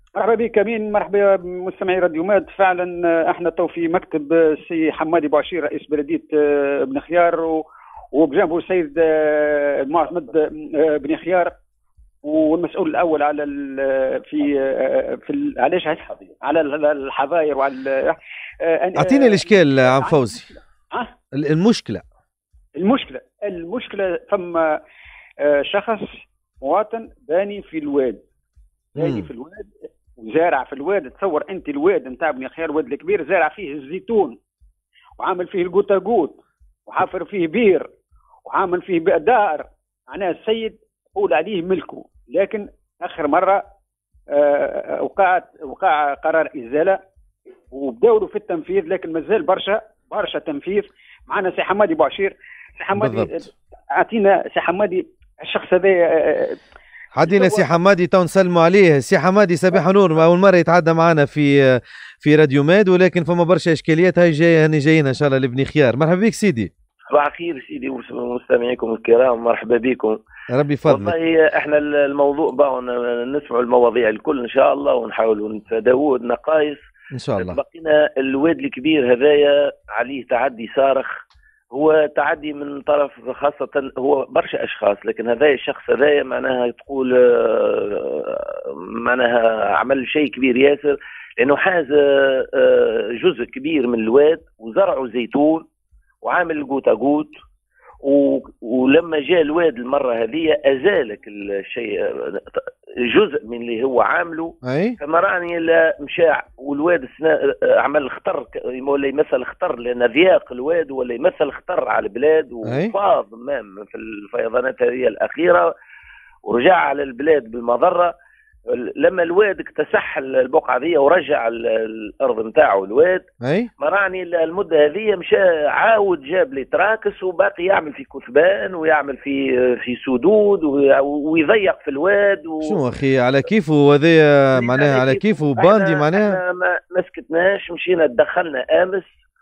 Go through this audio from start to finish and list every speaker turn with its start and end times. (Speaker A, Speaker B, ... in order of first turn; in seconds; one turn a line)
Speaker A: 0.2-11.5
Speaker A: 12.2-20.1
Speaker B: 18.9-20.5
Speaker B: 21.3-22.0
Speaker A: 22.8-24.8
Speaker A: 25.4-26.0
Speaker A: 26.6-28.2
Speaker B: 29.0-29.3
Speaker A: 29.2-34.4
Speaker A: 35.2-36.4
Speaker A: 36.9-37.9
Speaker A: 38.5-43.6
Speaker A: 44.3-47.0
Speaker A: 47.7-53.4
Speaker B: 53.0-53.4
Speaker A: 54.0-56.6
Speaker B: 57.1-66.7
Speaker C: 67.1-70.2
Speaker B: 70.5-71.1
Speaker C: 70.8-76.8
Speaker B: 77.1-77.6
Speaker C: 77.4-81.1
Speaker C: 81.7-95.6
Speaker C: 96.2-97.3
Speaker C: 98.0-115.7
Speaker B: 104.6-105.0
Speaker B: 112.6-112.9
Speaker C: 116.4-118.1
Speaker C: 118.7-123.2
Speaker B: 123.4-123.7
Speaker C: 123.8-132.8
Speaker B: 132.6-136.4
Speaker C: 134.5-139.1